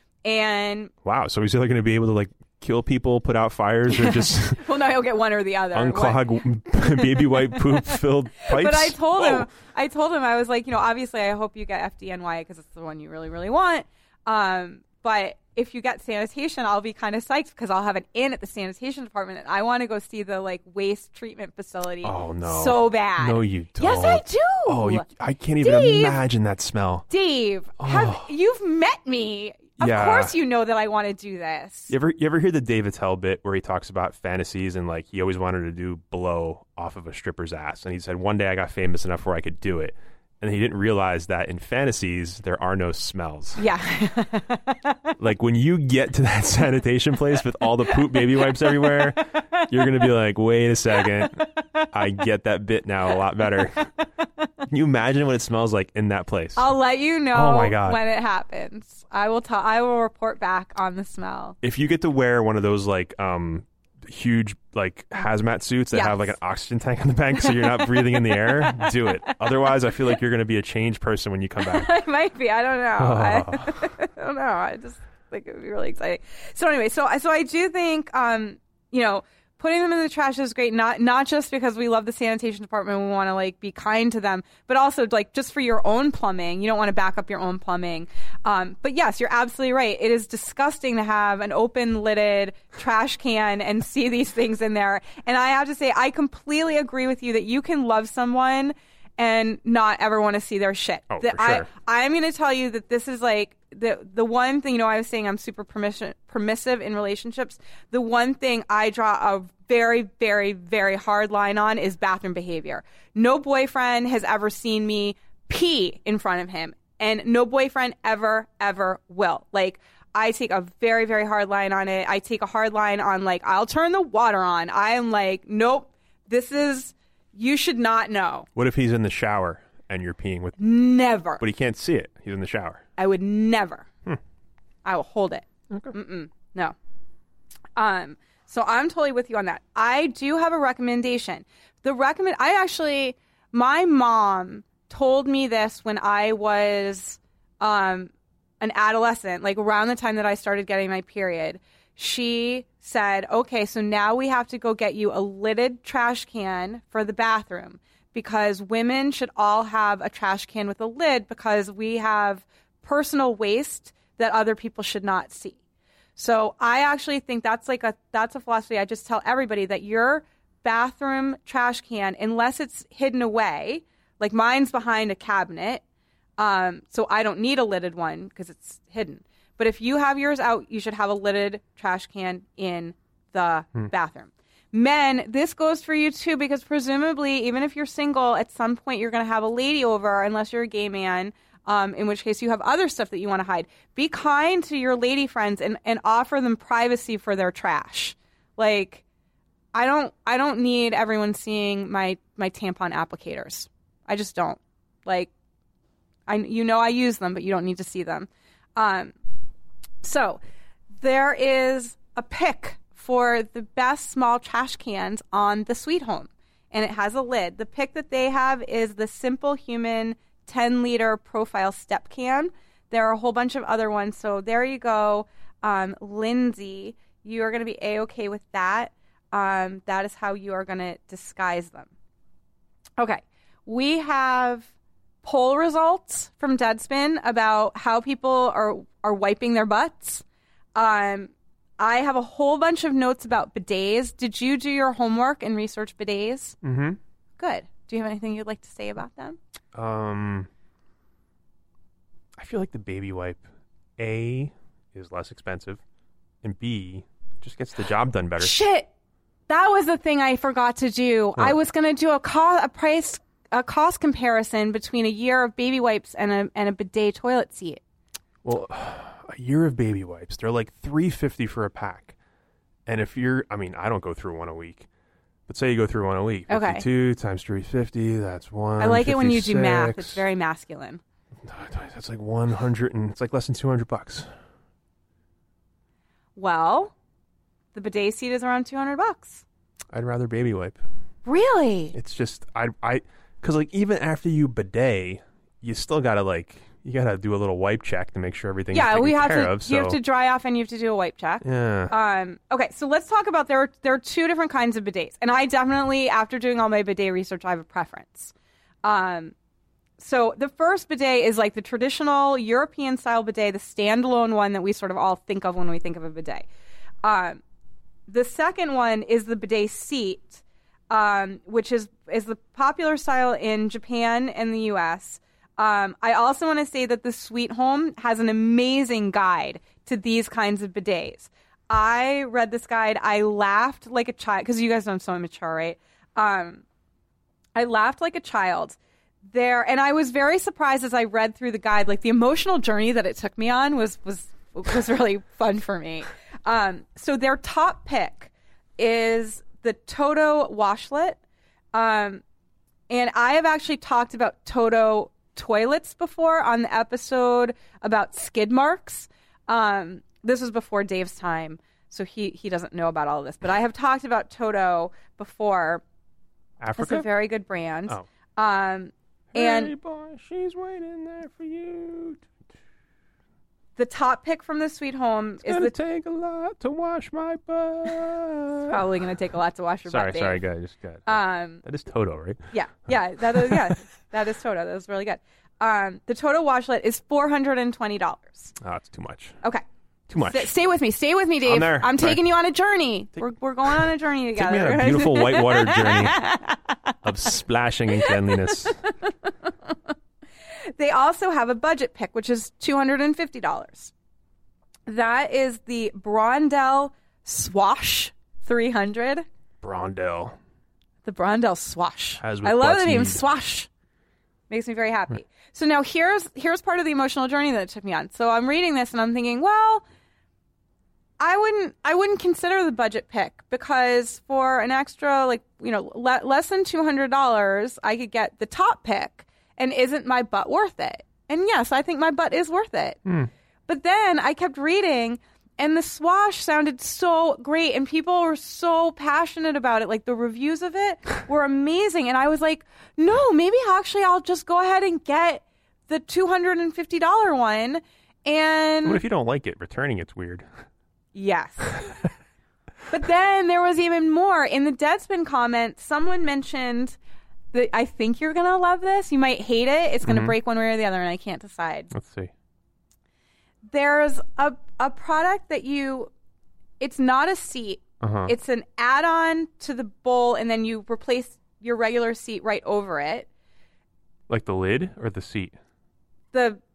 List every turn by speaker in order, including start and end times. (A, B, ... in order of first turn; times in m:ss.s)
0:00.2-0:00.9 A
0:01.0-0:04.7 B
0:03.9-0:06.3 A
0:05.7-0:09.5 B
0:06.8-0:25.1 A
0:22.0-0:27.1 B
0:25.6-0:26.2 A
0:27.1-0:31.9 A
0:27.8-0:28.3 B
0:29.8-0:30.4 B
0:31.9-0:43.6 B
0:43.6-0:45.1 A
0:45.2-0:53.9 B
0:47.9-0:50.0 A
0:51.0-0:51.9 A
0:54.7-0:56.7 B
0:56.6-1:01.6 A
0:57.3-0:58.0 B
1:01.6-1:11.9 B
1:05.9-1:06.3 A
1:07.4-1:09.7 A
1:11.6-2:08.5 A
1:13.0-1:13.9 B
1:41.1-1:41.7 B
2:08.6-2:10.6 B
2:10.6-2:11.4 A
2:11.4-2:12.8 B
2:13.0-2:13.9 A
2:14.8-2:16.7 A
2:17.8-2:45.6 A
2:46.2-2:55.8 A
2:56.4-3:19.0 A
3:19.7-3:25.3 A
3:26.3-3:29.1 A
3:30.0-3:30.4 A
3:31.0-3:51.9 A
3:53.0-3:54.7 A
3:55.2-4:00.2 A
4:00.7-4:06.6 A
4:06.6-4:07.0 B
4:07.4-4:09.4 A
4:09.7-4:10.5 B
4:12.4-4:13.4 B
4:14.0-4:15.8 B
4:16.4-4:18.6 B
4:18.4-4:18.9 A
4:19.5-4:27.8 A
4:28.4-4:32.1 B
4:32.9-4:34.9 B
4:35.5-4:40.2 B
4:36.5-4:36.9 A
4:38.8-4:41.0 A
4:41.4-4:44.3 B
4:46.4-4:46.9 A
4:47.7-4:49.4 A
4:49.9-4:50.8 B
4:51.3-4:52.0 A
4:51.9-5:00.0 B
4:58.7-5:08.3 A
5:01.4-5:01.9 B
5:08.8-5:09.3 A
5:10.0-5:16.4 A
5:17.0-5:17.4 A
5:18.1-5:36.6 A
5:37.6-5:51.2 A
5:51.7-5:52.2 A
5:52.9-6:05.8 A
6:06.6-6:07.1 B
6:06.8-6:09.7 A
6:09.3-6:12.3 B
6:13.8-6:15.7 A
6:15.4-6:18.8 B
6:18.7-6:20.4 A
6:19.9-6:22.4 B
6:21.1-6:21.6 A
6:22.5-6:28.5 A
6:23.3-6:23.7 B
6:28.6-6:29.4 B
6:30.1-6:30.5 B
6:30.2-6:36.7 A
6:31.4-6:32.2 B
6:34.3-6:36.2 B
6:37.0-6:38.8 B
6:38.0-6:39.7 A
6:40.8-6:43.9 A
6:44.9-6:49.2 A
6:49.6-6:50.4 B
6:51.0-6:53.7 A
6:52.2-6:53.2 B
6:54.5-6:59.8 A
7:01.2-7:13.0 A
7:13.7-7:29.0 A
7:28.8-7:30.5 B
7:31.1-7:31.9 A
7:32.9-7:37.0 A
7:37.5-7:41.9 A
7:40.0-7:40.3 B
7:41.9-7:42.3 B
7:43.6-7:46.1 A
7:46.8-7:53.3 A
7:48.0-7:48.3 B
7:54.3-7:55.6 B
7:56.3-7:56.6 A